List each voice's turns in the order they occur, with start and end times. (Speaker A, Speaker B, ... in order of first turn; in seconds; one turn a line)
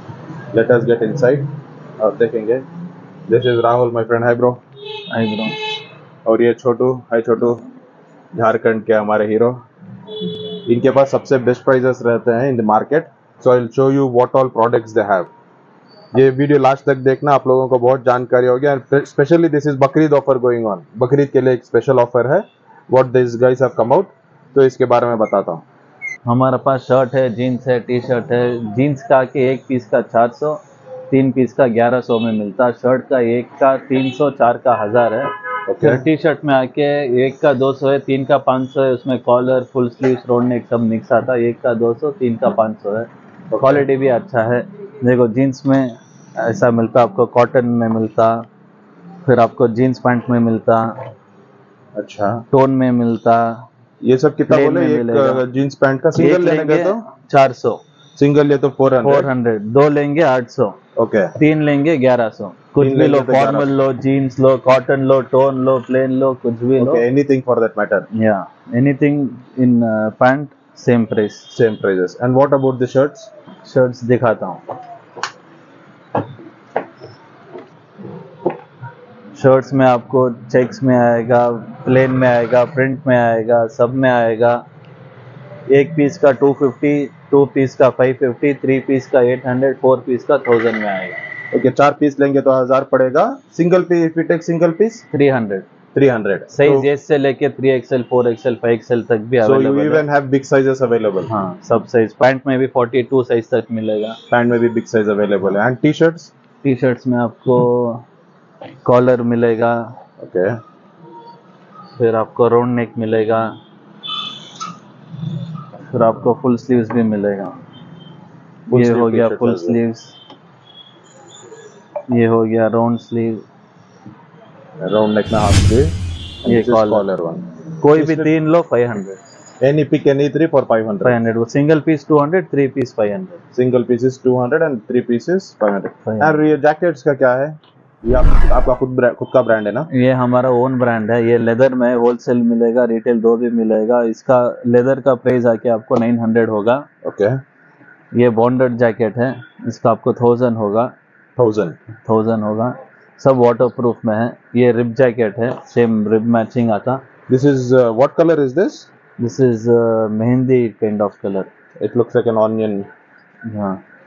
Speaker A: 0.5-2.6
Speaker A: 3.3-4.6
Speaker B: 5.1-5.6
Speaker A: 6.3-7.7
Speaker A: 8.3-9.6
Speaker A: 10.7-15.3
Speaker A: 16.1-25.6
Speaker B: 26.3-48.5
Speaker A: 35.7-36.0
Speaker A: 43.5-43.9
Speaker B: 49.2-50.9
Speaker A: 52.0-52.4
Speaker B: 52.5-53.6
Speaker A: 54.0-57.0
Speaker B: 54.5-55.4
Speaker B: 56.1-57.8
Speaker A: 58.2-59.3
Speaker B: 59.0-60.8
Speaker A: 61.0-61.4
Speaker B: 61.4-67.0
Speaker A: 62.8-63.7
Speaker A: 66.8-68.1
Speaker B: 68.2-71.5
Speaker A: 71.5-73.3
Speaker B: 73.6-74.6
Speaker B: 79.3-84.6
Speaker B: 85.7-91.2
Speaker A: 91.5-95.0
Speaker B: 95.1-95.7
Speaker A: 96.0-96.9
Speaker B: 96.5-100.0
Speaker A: 99.4-101.3
Speaker B: 101.3-104.2
Speaker A: 104.3-106.3
Speaker B: 106.6-108.1
Speaker B: 108.8-109.8
Speaker A: 110.2-110.6
Speaker B: 112.0-113.5
Speaker B: 115.9-117.5
Speaker A: 118.7-119.8
Speaker B: 118.7-120.2
Speaker B: 122.1-123.4
Speaker A: 124.8-128.3
Speaker B: 126.5-127.0
Speaker B: 127.8-129.2
Speaker A: 129.6-131.2
Speaker B: 131.0-133.4
Speaker A: 133.5-139.9
Speaker B: 136.1-136.4
Speaker B: 139.9-146.9
Speaker A: 147.0-147.4
Speaker B: 148.1-150.9
Speaker A: 151.4-151.8
Speaker B: 152.1-157.0
Speaker A: 157.3-158.9
Speaker B: 159.2-161.5
Speaker A: 161.8-162.9
Speaker B: 163.5-163.8